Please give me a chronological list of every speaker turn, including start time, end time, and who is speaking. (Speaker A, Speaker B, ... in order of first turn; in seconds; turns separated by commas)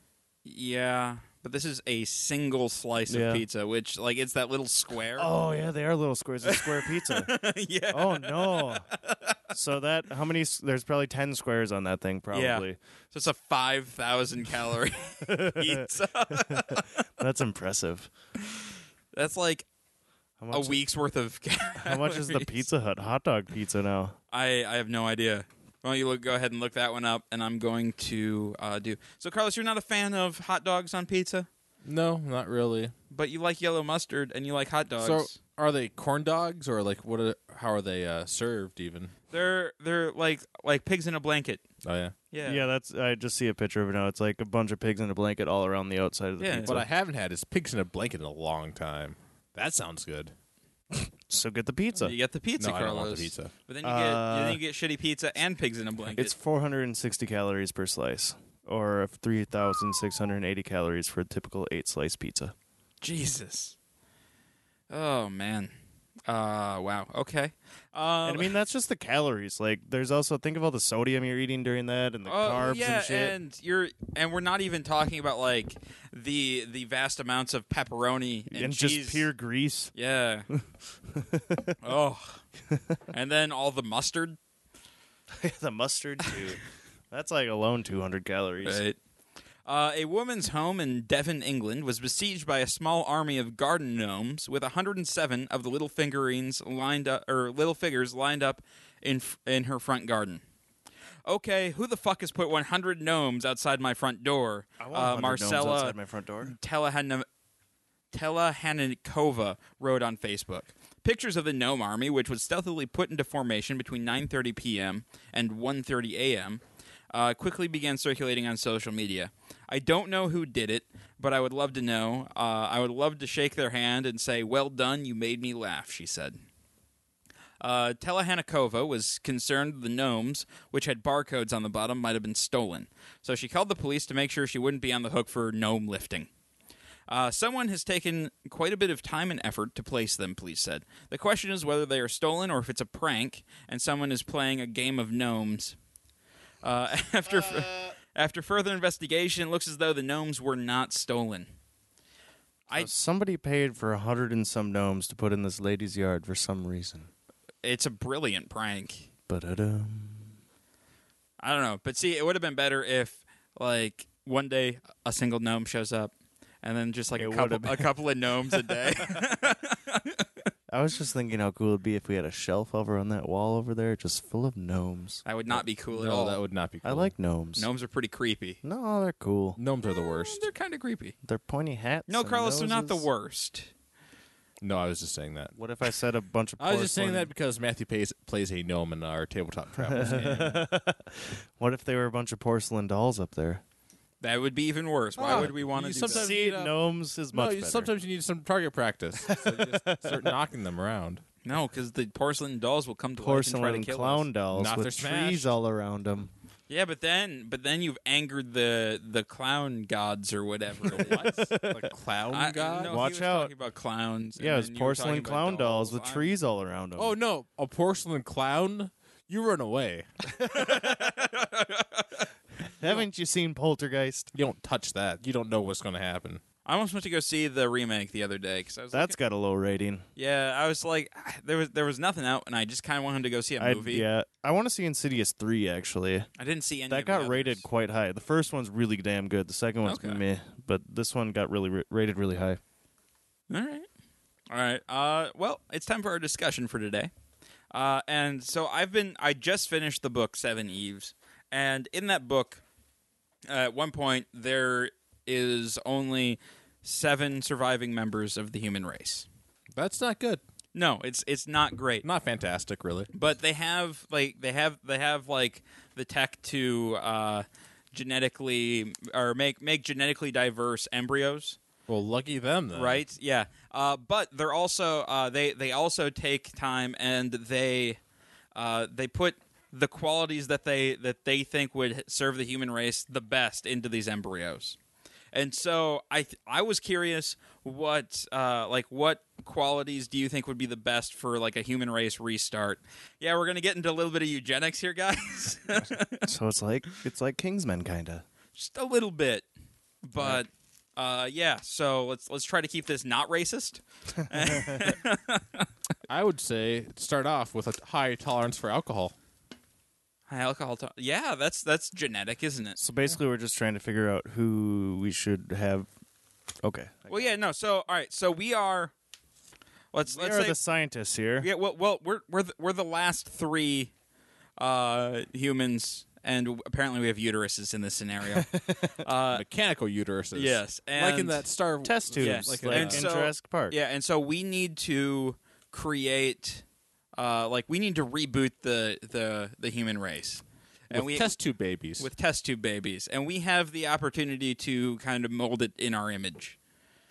Speaker A: 0.4-5.3, Speaker B: 3.1-3.4, Speaker B: 5.1-7.3, Speaker A: 6.4-9.4, Speaker B: 7.9-8.9, Speaker B: 9.5-12.8, Speaker A: 12.3-17.0, Speaker B: 15.2-18.1, Speaker A: 19.1-19.6, Speaker B: 20.4-20.8, Speaker A: 20.5-22.6, Speaker B: 21.8-24.1, Speaker A: 24.3-31.5, Speaker C: 31.8-32.9, Speaker A: 33.1-35.4, Speaker C: 35.0-39.1, Speaker A: 39.3-41.6, Speaker C: 41.8-42.1, Speaker A: 42.3-42.6, Speaker B: 42.4-46.9, Speaker A: 46.4-46.8, Speaker C: 46.6-50.3, Speaker B: 50.9-52.1, Speaker A: 52.0-56.3, Speaker C: 52.6-53.5, Speaker B: 53.8-54.6, Speaker B: 56.1-62.5, Speaker A: 63.0-63.7, Speaker A: 64.9-65.7, Speaker A: 66.3-68.5, Speaker B: 68.2-73.3, Speaker A: 72.2-79.3, Speaker B: 78.5-79.9, Speaker A: 79.9-80.5, Speaker B: 80.5-81.8, Speaker A: 81.8-82.4, Speaker A: 83.1-84.4, Speaker B: 85.3-88.8, Speaker A: 88.6-89.0, Speaker A: 89.6-100.4, Speaker A: 101.2-107.2, Speaker B: 104.8-106.5, Speaker A: 108.1-126.4, Speaker A: 127.6-136.3, Speaker A: 137.1-145.8, Speaker A: 146.6-151.5, Speaker B: 147.4-147.8, Speaker B: 152.7-157.1, Speaker A: 157.6-159.1, Speaker B: 159.3-160.3, Speaker A: 161.4-166.1, Speaker A: 166.6-170.2, Speaker B: 167.2-167.9, Speaker B: 168.5-169.3, Speaker B: 170.7-175.2, Speaker A: 175.2-176.4, Speaker C: 175.9-177.1, Speaker B: 176.8-177.7, Speaker A: 177.6-178.6, Speaker B: 178.6-179.6, Speaker C: 179.6-180.5, Speaker A: 179.9-181.1, Speaker B: 181.2-183.1, Speaker A: 182.1-183.7, Speaker C: 184.6-185.5, Speaker B: 185.5-187.3, Speaker C: 186.6-190.6, Speaker B: 189.8-193.6, Speaker A: 194.2-196.3, Speaker C: 195.2-196.7, Speaker B: 195.2-197.9, Speaker C: 197.3-201.2, Speaker B: 199.2-200.4, Speaker A: 201.4-204.3, Speaker B: 203.2-206.3, Speaker C: 204.5-205.5, Speaker A: 206.7-211.2, Speaker B: 210.9-211.9, Speaker C: 210.9-213.0, Speaker A: 212.3-216.3, Speaker B: 212.8-213.5, Speaker B: 214.4-217.1, Speaker C: 216.9-220.1, Speaker A: 220.4-222.3, Speaker B: 220.5-220.9, Speaker B: 222.8-224.3, Speaker C: 224.3-226.4, Speaker A: 226.6-229.1, Speaker B: 228.9-230.0, Speaker A: 230.2-234.1, Speaker B: 233.6-236.3, Speaker A: 236.4-237.7, Speaker B: 236.9-242.6, Speaker A: 239.8-240.2, Speaker A: 243.5-243.9, Speaker A: 244.5-247.1, Speaker A: 247.7-252.6, Speaker A: 253.5-259.3, Speaker C: 259.8-260.4, Speaker A: 260.7-262.1, Speaker C: 262.0-263.1, Speaker A: 263.1-271.6, Speaker C: 271.9-273.0, Speaker A: 272.7-278.0, Speaker A: 278.5-284.8, Speaker A: 285.3-296.3, Speaker B: 295.8-298.2, Speaker A: 298.6-299.5, Speaker A: 300.0-305.6, Speaker B: 300.2-300.4, Speaker B: 304.3-305.0, Speaker C: 306.1-309.1, Speaker A: 310.3-312.8, Speaker B: 312.8-315.9, Speaker B: 316.6-317.3, Speaker A: 317.1-318.9, Speaker A: 319.9-320.6, Speaker B: 320.1-321.5, Speaker A: 321.4-323.9, Speaker A: 324.6-329.4, Speaker B: 328.3-328.9, Speaker C: 329.3-333.0, Speaker A: 330.3-331.4, Speaker B: 331.8-333.8, Speaker A: 332.2-336.6, Speaker A: 337.1-341.3, Speaker C: 340.9-342.1, Speaker A: 342.0-346.6